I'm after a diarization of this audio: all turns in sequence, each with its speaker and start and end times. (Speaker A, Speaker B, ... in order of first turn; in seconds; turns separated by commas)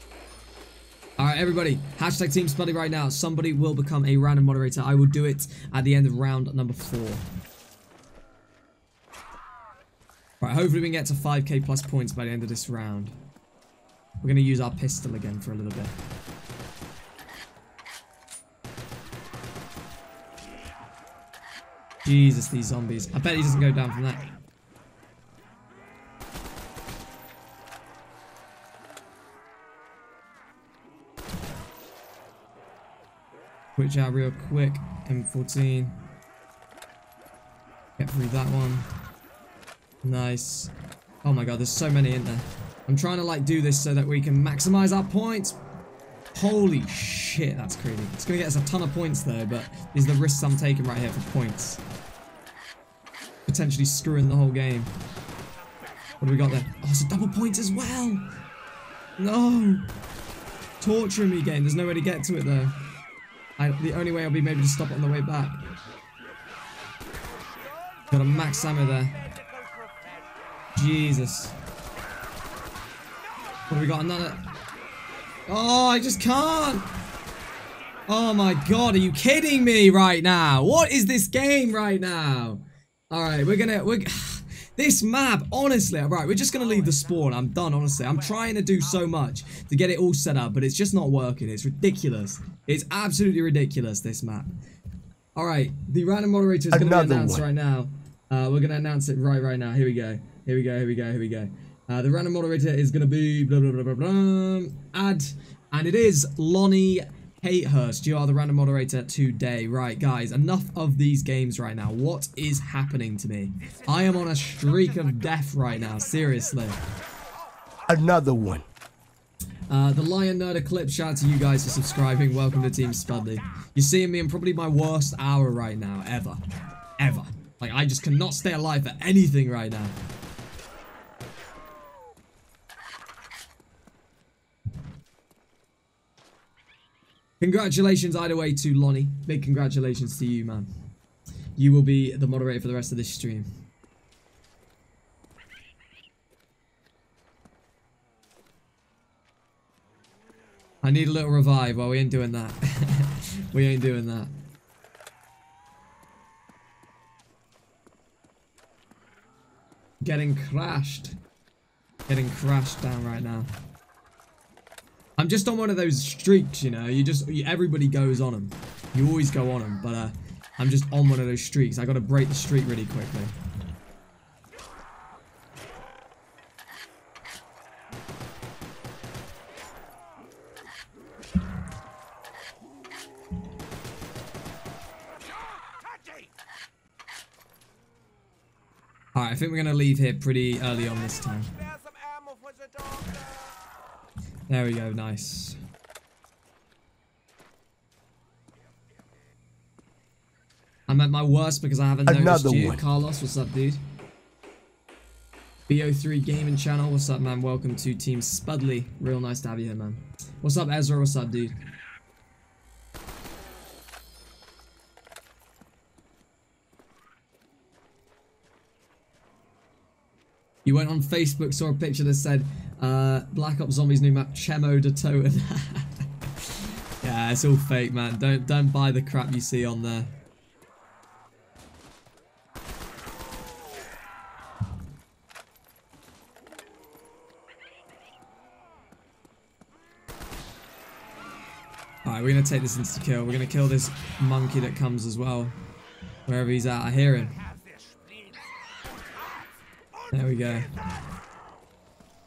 Speaker A: 1.2-7.2, Speaker A: 10.4-13.2, Speaker A: 14.2-15.9, Speaker A: 22.0-24.3, Speaker A: 33.8-36.0, Speaker A: 38.0-38.9, Speaker A: 40.0-40.7, Speaker A: 41.2-45.6, Speaker A: 46.3-51.8, Speaker A: 53.5-54.9, Speaker A: 56.2-58.2, Speaker A: 59.2-59.9, Speaker A: 60.8-62.7, Speaker A: 63.6-65.6, Speaker B: 67.5-70.5, Speaker A: 68.1-69.2, Speaker A: 70.8-71.5, Speaker A: 73.7-74.4, Speaker A: 75.5-76.9, Speaker A: 78.1-94.5, Speaker B: 88.4-88.8, Speaker A: 95.3-116.8, Speaker C: 96.7-97.4, Speaker B: 113.7-116.7, Speaker C: 117.8-118.7, Speaker A: 119.7-126.4, Speaker A: 127.0-129.9, Speaker A: 137.4-140.7, Speaker A: 141.6-143.5, Speaker A: 150.8-154.3, Speaker A: 160.0-161.2, Speaker A: 162.1-163.5, Speaker A: 165.2-173.3, Speaker B: 185.4-186.3, Speaker A: 189.1-191.5, Speaker B: 191.4-193.6, Speaker A: 194.5-195.6, Speaker A: 200.9-203.8, Speaker C: 202.1-202.8, Speaker A: 205.7-211.5, Speaker A: 220.6-226.5, Speaker A: 227.0-230.1, Speaker A: 242.0-245.5, Speaker A: 246.3-247.4, Speaker B: 247.2-251.0, Speaker A: 250.1-250.7